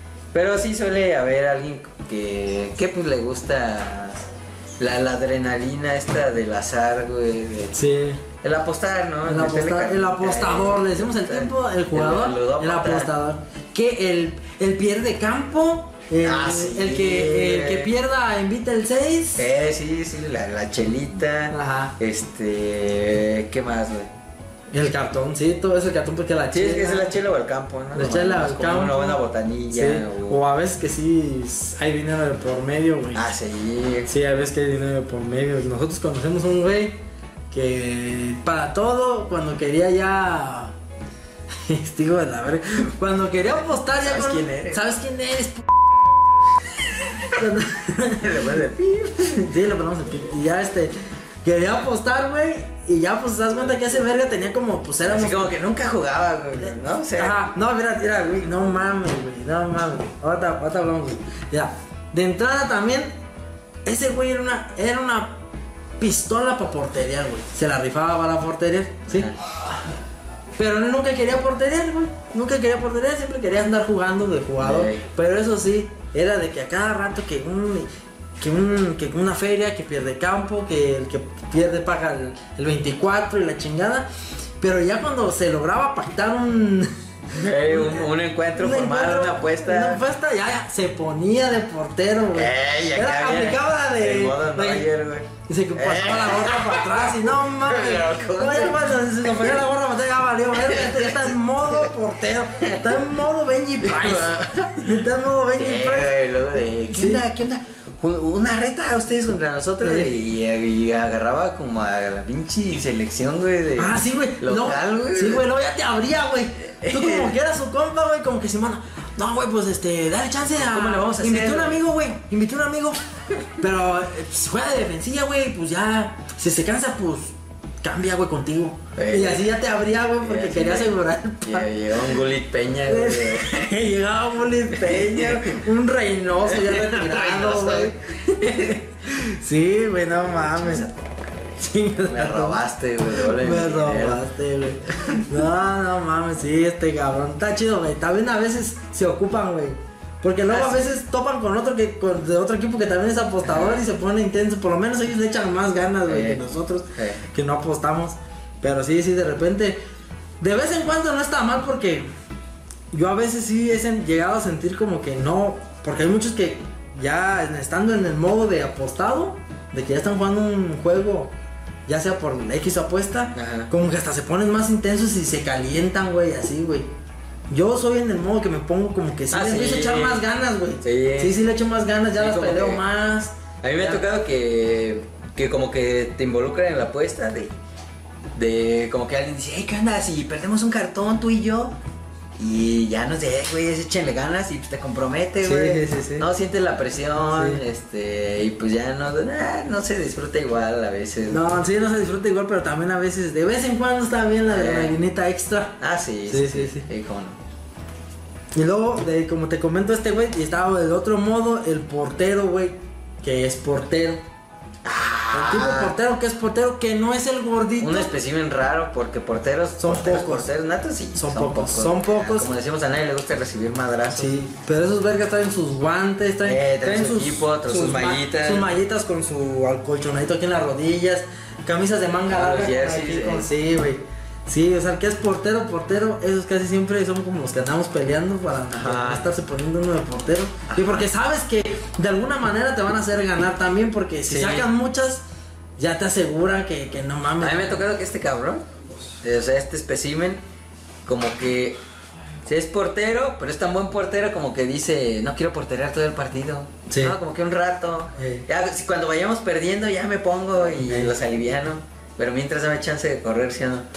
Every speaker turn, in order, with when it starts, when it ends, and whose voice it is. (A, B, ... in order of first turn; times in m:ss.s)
0:00.3-0:04.2 A
0:04.8-0:07.8 A
0:07.7-0:08.2 B
0:08.4-0:13.1 A
0:09.2-0:19.5 B
0:16.2-0:17.9 A
0:19.4-0:24.1 A
0:21.5-0:22.0 B
0:24.7-0:27.2 B
0:26.5-0:30.4 A
0:27.9-0:33.3 B
0:33.1-0:34.1 A
0:34.1-0:37.0 B
0:37.5-0:40.7 B
0:41.7-0:45.7 B
0:43.6-0:44.9 A
0:47.3-0:48.4 B
0:48.2-0:49.5 A
0:49.4-0:50.9 B
0:51.4-0:55.6 B
0:55.0-0:57.4 A
0:57.2-1:03.1 B
1:03.8-1:05.4 B
1:06.0-1:09.3 B
1:09.1-1:09.4 A
1:10.6-1:17.9 B
1:14.6-1:15.0 A
1:18.4-1:24.1 B
1:24.6-1:34.9 B
1:27.4-1:30.0 A
1:32.3-1:39.6 A
1:35.4-1:46.2 B
1:40.5-1:41.9 A
1:42.6-1:43.0 A
1:43.8-1:44.7 A
1:45.6-1:55.4 A
1:46.9-1:47.2 B
1:49.8-1:50.1 B
1:53.8-2:03.0 B
1:56.7-1:57.4 A
2:00.5-2:01.8 A
2:03.6-2:12.2 B
2:09.0-2:09.5 A
2:10.2-2:10.9 A
2:11.4-2:13.7 A
2:12.9-2:20.9 B
2:14.8-2:15.6 A
2:16.4-2:18.8 A
2:20.3-2:24.2 A
2:21.6-2:39.8 B
2:30.5-2:30.9 A
2:33.4-2:33.8 A
2:36.1-2:36.4 A
2:37.0-2:37.2 A
2:40.4-2:42.1 B
2:42.9-2:51.3 B
2:51.9-2:56.9 B
2:53.4-2:53.7 A
2:57.5-3:04.0 B
2:59.3-3:00.2 A
3:00.8-3:01.4 A
3:02.1-3:02.8 A
3:03.6-3:07.5 A
3:08.4-3:11.8 A
3:12.4-3:21.5 A
3:15.4-3:16.3 B
3:17.2-3:17.6 B
3:21.3-3:25.8 B
3:24.4-3:25.0 A
3:25.8-3:27.4 A
3:26.3-3:26.9 B
3:28.6-3:34.2 B
3:34.8-3:36.0 A
3:35.3-3:38.1 B
3:37.8-3:44.4 A
3:39.8-3:40.5 B
3:41.1-3:42.5 B
3:44.1-4:05.2 B
3:46.4-3:48.7 A
3:52.3-3:53.5 A
3:58.7-3:59.3 A
4:00.7-4:01.1 A
4:04.3-4:04.7 A
4:05.8-4:07.8 B
4:07.4-4:08.6 A
4:09.2-4:10.4 A
4:11.1-4:11.8 A
4:12.5-4:23.9 A
4:16.9-4:17.2 B
4:18.2-4:18.5 B
4:20.8-4:21.2 B